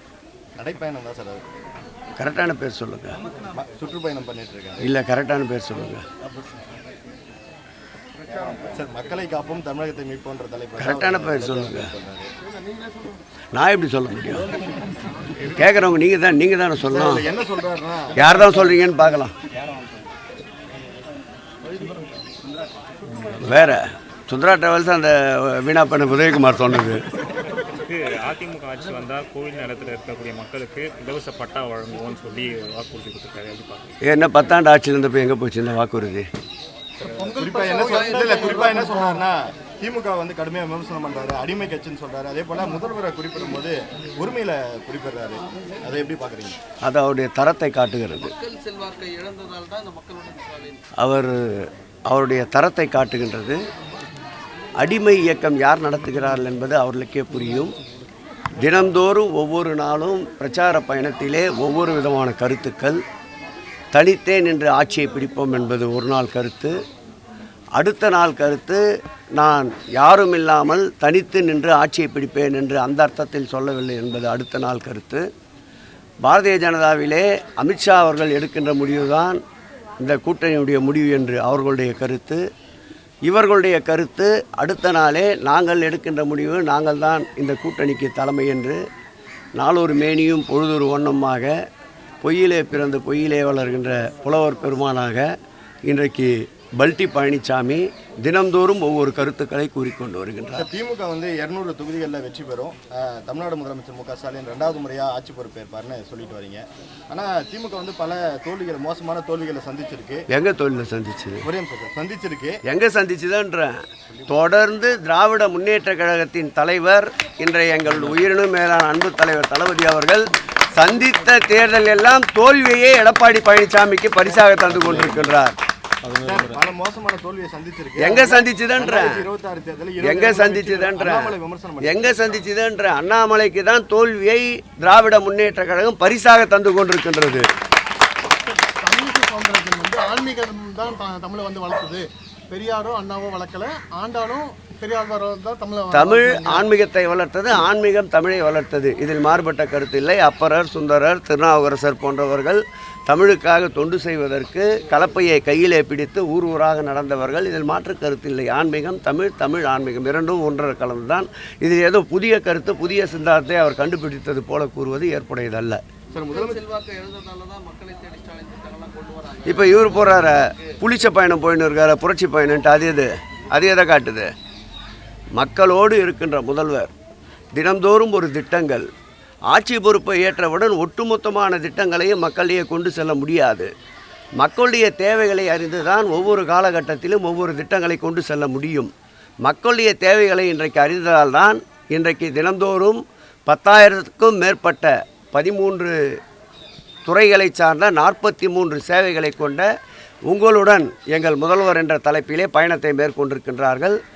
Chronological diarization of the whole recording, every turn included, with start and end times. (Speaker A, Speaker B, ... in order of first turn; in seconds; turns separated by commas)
Speaker A: 0.6-1.4, Speaker B: 2.2-3.2, Speaker A: 3.5-4.9, Speaker B: 4.8-6.0, Speaker A: 8.7-12.3, Speaker B: 10.8-11.9, Speaker B: 13.5-14.5, Speaker B: 15.5-17.3, Speaker A: 16.9-18.8, Speaker B: 18.1-19.3, Speaker B: 23.4-27.1, Speaker C: 27.5-34.0, Speaker B: 34.0-36.3, Speaker D: 37.1-39.2, Speaker A: 37.3-46.6, Speaker E: 37.6-38.8, Speaker B: 46.8-48.3, Speaker E: 48.2-50.8, Speaker B: 51.0-53.6, Speaker B: 54.8-57.8, Speaker B: 58.6-63.0, Speaker B: 63.9-66.8, Speaker B: 67.8-68.8, Speaker B: 69.4-75.2, Speaker B: 76.2-79.4, Speaker B: 80.0-82.4, Speaker B: 83.3-88.8, Speaker B: 89.6-91.5, Speaker B: 92.2-95.3, Speaker B: 95.8-100.7, Speaker A: 100.5-110.2, Speaker B: 110.3-111.5, Speaker A: 111.4-112.6, Speaker B: 112.7-125.6, Speaker A: 124.3-125.0, Speaker A: 126.1-132.3, Speaker B: 128.0-129.2, Speaker B: 130.0-131.3, Speaker B: 131.8-137.5, Speaker D: 138.5-146.7, Speaker B: 145.9-165.8, Speaker A: 166.1-166.6, Speaker E: 166.2-170.3, Speaker B: 169.4-174.3, Speaker B: 175.3-176.9, Speaker B: 177.5-178.9, Speaker B: 179.5-183.7, Speaker B: 184.4-188.9, Speaker B: 189.4-196.0, Speaker B: 197.1-199.7, Speaker B: 200.3-204.0